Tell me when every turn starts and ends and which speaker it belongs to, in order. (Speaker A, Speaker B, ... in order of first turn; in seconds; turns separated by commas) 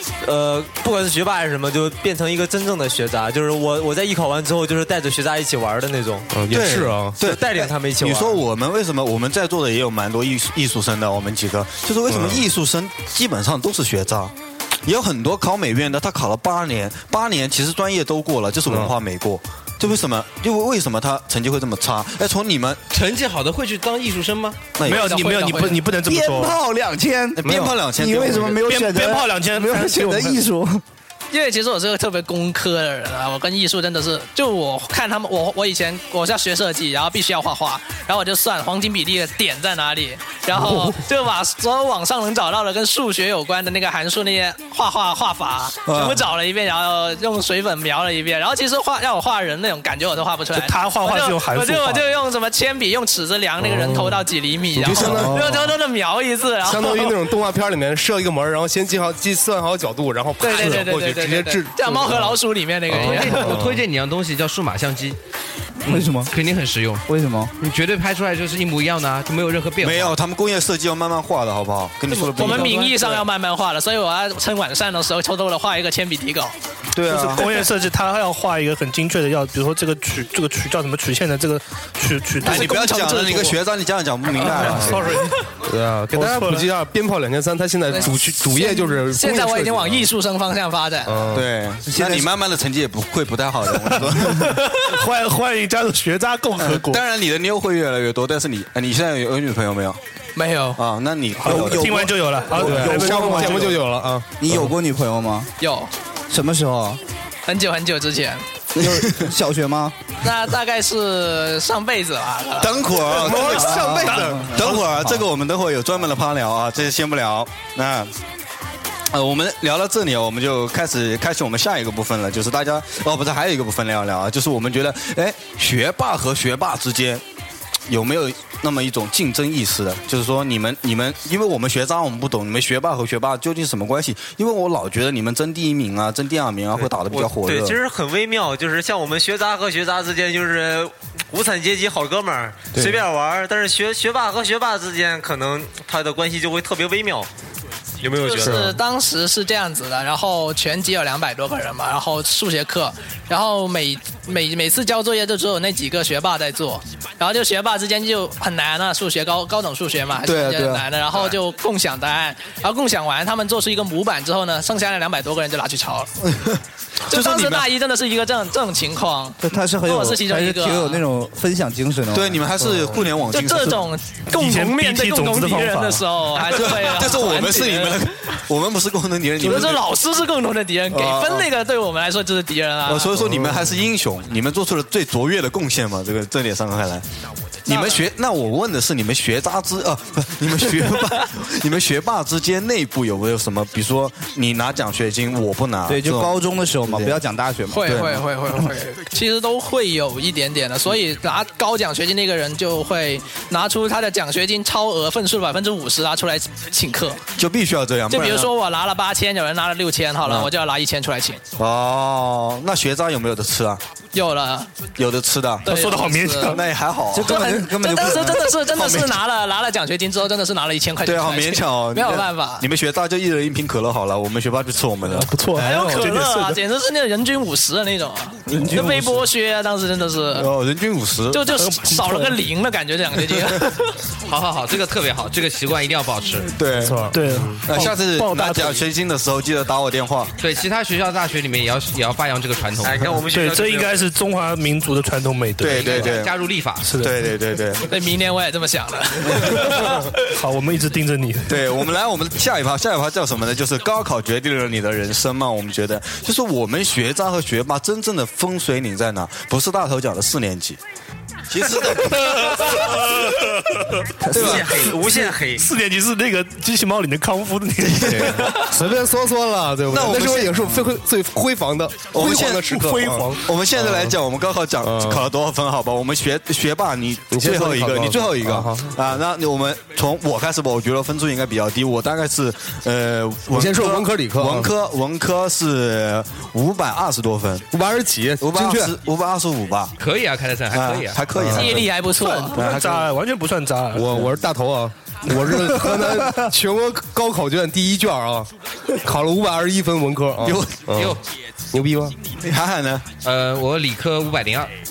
Speaker A: 0.2-6.3, Speaker B: 6.3-7.2, Speaker C: 6.5-14.3, Speaker A: 7.2-8.4, Speaker B: 12.1-12.4, Speaker C: 14.9-22.9, Speaker B: 18.7-18.9, Speaker D: 22.9-24.7, Speaker C: 24.7-25.1, Speaker E: 24.8-26.6, Speaker F: 24.9-25.8, Speaker G: 26.0-30.8, Speaker C: 27.4-28.7, Speaker E: 28.6-30.4, Speaker F: 31.3-57.1, Speaker C: 45.9-46.2, Speaker E: 50.5-52.1, Speaker B: 53.6-54.2, Speaker B: 54.8-55.7, Speaker G: 54.9-55.5, Speaker B: 56.6-63.8, Speaker F: 60.4-63.6, Speaker D: 63.0-65.2, Speaker G: 65.8-66.3, Speaker D: 66.2-67.0, Speaker G: 67.1-67.5, Speaker D: 67.6-70.2, Speaker C: 69.8-73.2, Speaker D: 72.1-72.8, Speaker F: 72.3-76.5, Speaker C: 76.9-77.6, Speaker E: 77.1-83.6, Speaker C: 82.4-85.2, Speaker E: 84.3-85.4, Speaker B: 85.6-90.1, Speaker E: 86.1-86.7, Speaker F: 87.9-91.3, Speaker B: 91.1-91.5, Speaker C: 91.3-94.6, Speaker G: 91.9-92.3, Speaker E: 94.2-97.0, Speaker C: 96.6-100.0, Speaker F: 100.4-100.8, Speaker C: 100.8-102.1, Speaker E: 101.4-103.8, Speaker G: 101.4-103.8, Speaker B: 102.6-104.7, Speaker G: 104.4-105.5, Speaker F: 105.6-105.9, Speaker G: 106.3-107.0, Speaker F: 107.5-108.5, Speaker G: 108.8-110.0, Speaker C: 108.8-109.3, Speaker F: 110.2-113.3, Speaker C: 112.6-118.1, Speaker G: 113.3-114.9, Speaker E: 113.4-114.8, Speaker C: 119.1-127.2, Speaker C: 127.9-137.8, Speaker A: 136.8-147.3, Speaker A: 148.0-148.8, Speaker F: 148.2-166.1, Speaker C: 160.2-160.9, Speaker C: 166.2-167.7, Speaker F: 167.1-171.0, Speaker G: 169.4-172.5, Speaker C: 172.1-173.9, Speaker F: 173.3-178.0, Speaker E: 174.3-176.1, Speaker C: 176.5-179.9, Speaker F: 179.4-183.2, Speaker C: 180.9-181.5, Speaker C: 182.9-187.1, Speaker B: 183.2-183.7, Speaker C: 187.7-197.2, Speaker F: 187.7-188.0, Speaker G: 195.9-198.2, Speaker F: 197.7-207.2, Speaker C: 197.8-198.2, Speaker C: 207.3-208.5, Speaker F: 208.1-211.4, Speaker C: 210.2-210.5, Speaker C: 211.6-213.8, Speaker F: 214.1-214.7, Speaker C: 215.0-215.7, Speaker F: 215.7-216.6, Speaker E: 215.7-216.6, Speaker C: 216.4-217.5, Speaker G: 217.1-218.4, Speaker F: 217.2-222.7, Speaker C: 218.7-219.2, Speaker C: 221.0-225.3, Speaker E: 225.1-226.6, Speaker F: 225.6-230.5, Speaker G: 228.5-229.3, Speaker C: 230.3-231.5, Speaker F: 231.3-233.8, Speaker E: 231.5-232.4, Speaker D: 234.3-236.5, Speaker C: 236.6-240.3, Speaker B: 236.8-237.6, Speaker E: 237.0-238.8, Speaker D: 240.4-243.1, Speaker A: 242.8-244.0, Speaker E: 243.3-246.1, Speaker C: 245.6-246.3, Speaker D: 245.7-246.9, Speaker E: 246.8-247.2, Speaker C: 247.0-247.9, Speaker F: 247.9-250.0, Speaker C: 249.3-249.7, Speaker E: 249.5-251.7, Speaker C: 251.5-260.8, Speaker C: 261.5-262.9, Speaker G: 264.2-264.7, Speaker C: 264.3-264.9, Speaker A: 264.3-265.6, Speaker E: 265.6-268.6, Speaker C: 267.8-268.6, Speaker B: 268.1-274.1, Speaker C: 269.9-270.7, Speaker C: 272.1-287.7, Speaker E: 272.8-273.3, Speaker B: 274.8-275.3, Speaker B: 277.3-278.9, Speaker B: 283.5-284.7, Speaker B: 287.7-288.9, Speaker C: 288.4-289.9, Speaker D: 290.0-291.3, Speaker C: 290.7-293.1, Speaker B: 291.3-291.8, Speaker F: 291.6-292.6, Speaker E: 292.3-294.2, Speaker B: 293.9-298.5, Speaker B: 299.0-301.2, Speaker C: 300.4-300.9, Speaker B: 301.7-302.2, Speaker C: 302.3-303.1, Speaker D: 303.2-304.7